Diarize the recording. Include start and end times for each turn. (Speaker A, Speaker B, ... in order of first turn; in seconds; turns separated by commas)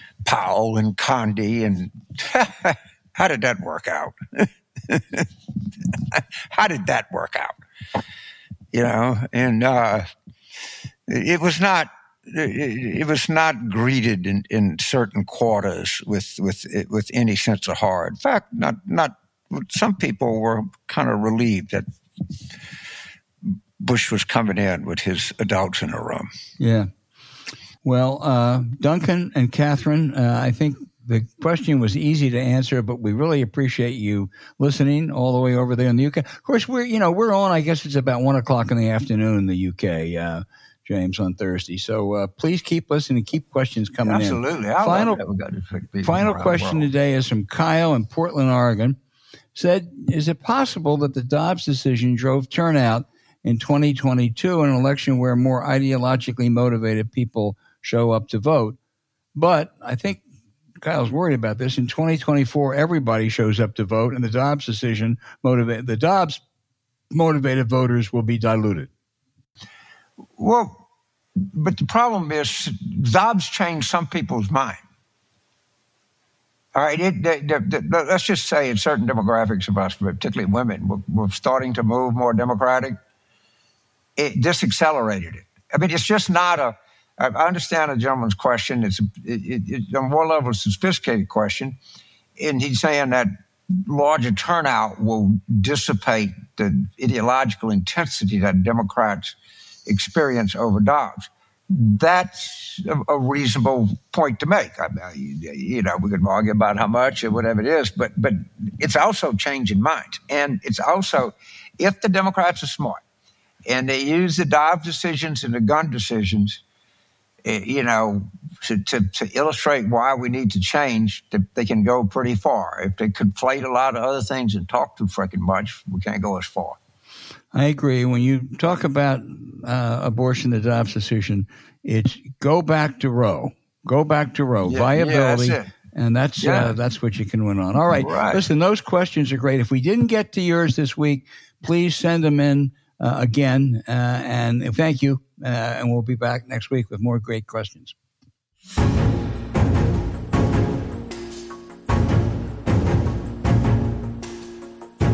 Speaker A: 0.2-5.3, Speaker A: 5.9-7.5, Speaker A: 8.7-10.0, Speaker A: 11.1-21.9, Speaker A: 23.8-26.3, Speaker B: 26.6-26.9, Speaker B: 27.8-45.2, Speaker A: 44.0-46.9, Speaker B: 46.0-49.0, Speaker B: 49.5-58.8, Speaker B: 59.3-60.2, Speaker B: 60.8-66.4, Speaker B: 67.1-68.9, Speaker A: 70.4-70.8, Speaker A: 71.4-74.8, Speaker A: 76.7-83.0, Speaker A: 84.2-91.8, Speaker A: 92.4-113.0, Speaker A: 113.7-116.6, Speaker A: 117.4-126.8, Speaker B: 127.5-147.9, Speaker A: 134.6-135.7, Speaker A: 136.4-136.8, Speaker A: 137.9-138.4